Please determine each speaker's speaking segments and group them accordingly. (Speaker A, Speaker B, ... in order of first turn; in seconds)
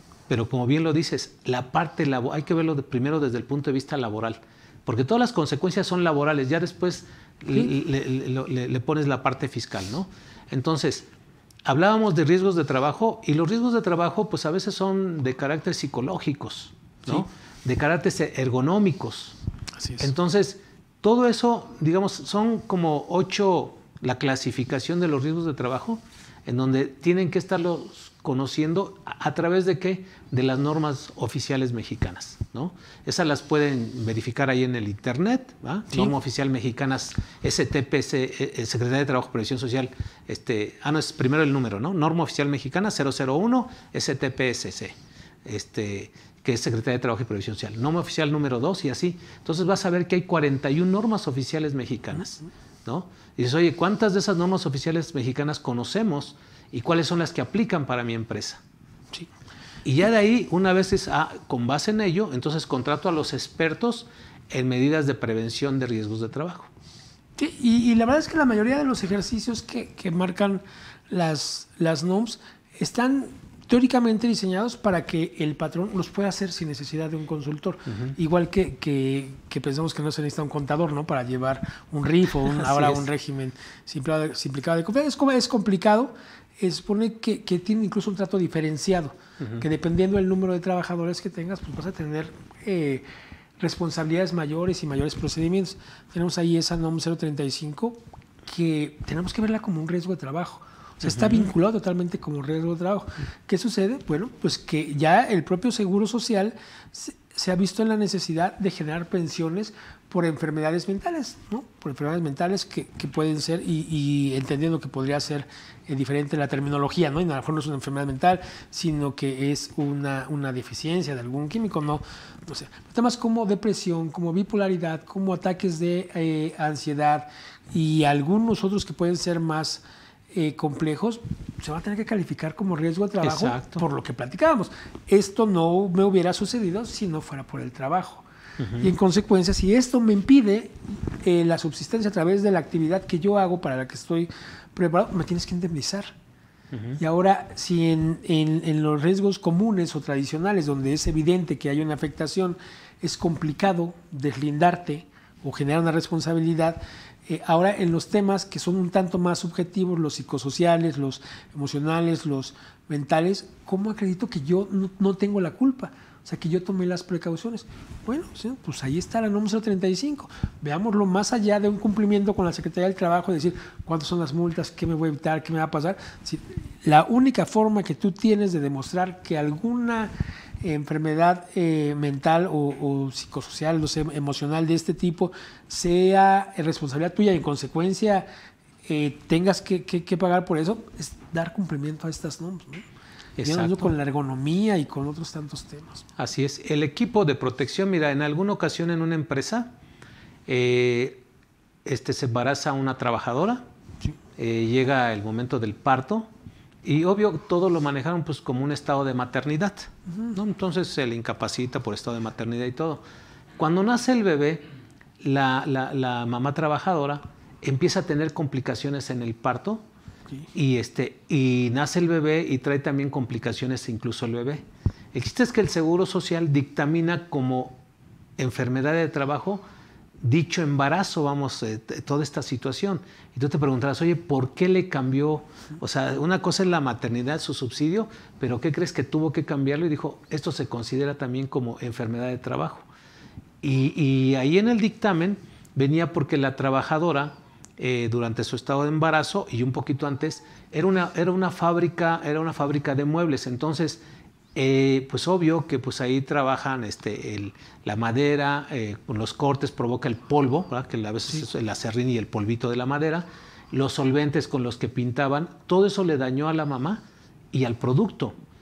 Speaker A: 0.3-11.1, 11.7-19.4, 20.0-58.6, 59.8-66.7, 82.5-83.0, 101.0-101.5, 133.2-133.8, 138.6-138.9, 146.7-147.0, 193.4-193.9, 196.2-199.7, 200.5-201.2, 201.8-203.6, 204.4-206.3, 206.8-213.0, 213.6-214.7, 215.2-219.8, 220.5-227.8, 228.4-229.6, 230.2-242.9, 243.6-254.0, 254.5-268.3
Speaker B: 19.8-20.1, 67.4-93.0, 93.6-138.2, 138.8-146.1, 147.0-188.3, 188.8-192.8, 193.4-196.0, 210.1-210.3